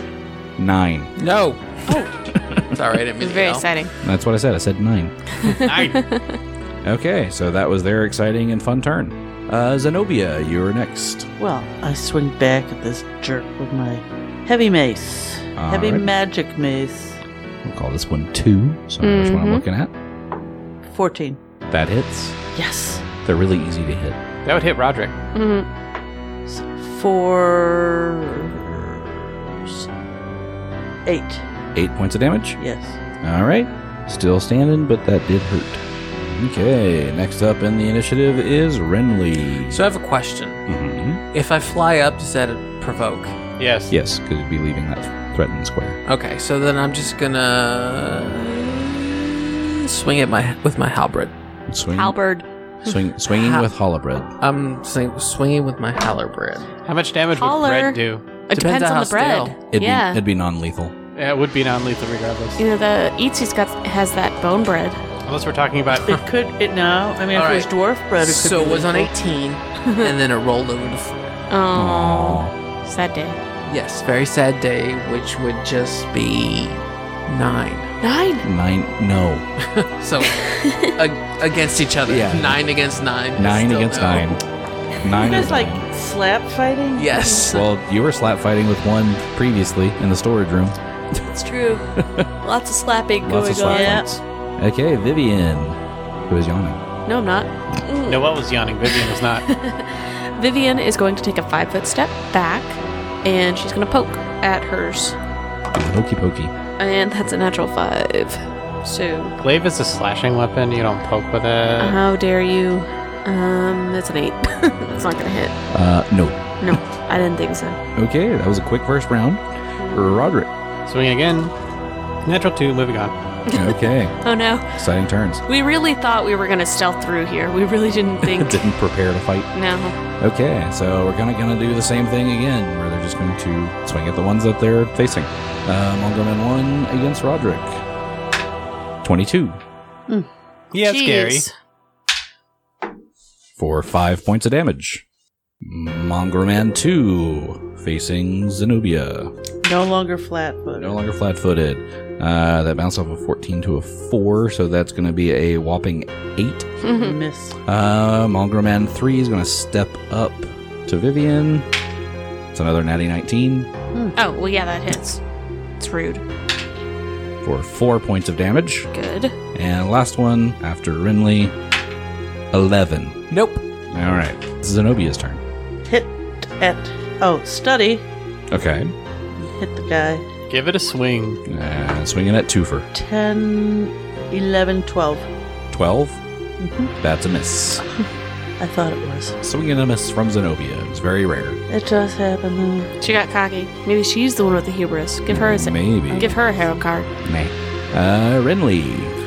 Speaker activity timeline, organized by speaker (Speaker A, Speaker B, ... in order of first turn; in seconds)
Speaker A: 0.6-1.1, 2.3-2.7, 4.0-5.1, 6.8-11.3, 15.6-16.1, 17.6-19.9, 21.7-22.4, 23.2-24.2, 31.7-32.6, 33.2-39.8, 40.6-41.2, 43.9-46.0, 51.7-52.2, 52.8-54.3, 59.7-60.9, 71.7-72.5, 78.4-79.5, 82.0-82.6, 83.3-84.4, 85.0-85.8, 87.4-90.8, 92.0-92.2, 93.2-96.8, 105.7-106.5, 115.7-116.8, 118.0-120.5, 123.5-124.2, 124.7-125.4, 128.2-129.5, 130.2-137.8, 139.0-139.6, 143.6-145.0, 145.6-149.3, 150.8-156.7, 157.7-161.7, 162.5-163.7, 167.4-168.9, 169.5-171.5, 172.5-173.2, 173.9-175.4, 178.5-178.9, 181.4-182.9, 185.7-186.2, 187.0-187.8, 189.4-191.6, 195.3-196.3, 197.2-199.2
Speaker B: 1.2-1.9, 2.7-3.7, 39.7-40.6, 41.3-43.4, 46.0-51.3, 53.3-53.7, 54.4-56.7, 58.5-59.6, 67.3-71.4, 73.6-77.9, 79.6-84.3, 86.9-87.7, 173.3-173.6
Speaker C: 3.2-3.9, 5.3-6.4, 19.0-19.6, 25.3-25.7, 51.9-53.0, 57.3-60.2, 62.6-65.0, 69.8-70.1, 71.5-73.4, 78.0-78.5, 80.4-81.0, 91.2-91.9, 92.4-94.0, 97.0-105.2, 106.8-109.3, 111.8-115.5, 116.6-117.8, 119.8-120.3, 123.5-124.6, 125.5-128.7, 129.5-129.9, 140.8-141.5, 156.8-157.2, 164.1-165.2, 165.8-166.2, 168.9-169.3, 193.0-197.1
Speaker D: 5.5-6.0, 24.4-25.1, 43.6-43.9, 56.8-58.2, 61.1-62.6, 65.2-66.2, 98.0-99.5, 109.4-112.0, 120.9-121.5, 122.2-123.1, 140.7-141.4, 180.5-181.4
Speaker E: 11.4-17.2, 20.9-21.4, 22.5-23.1, 26.4-29.9, 31.0-31.4, 32.6-33.0, 66.1-69.1, 85.2-87.4, 93.7-94.0, 149.6-151.0, 156.9-157.6, 175.8-178.1, 179.4-180.2, 182.9-185.3, 186.6-186.9, 188.6-189.4, 191.7-192.9, 196.1-196.7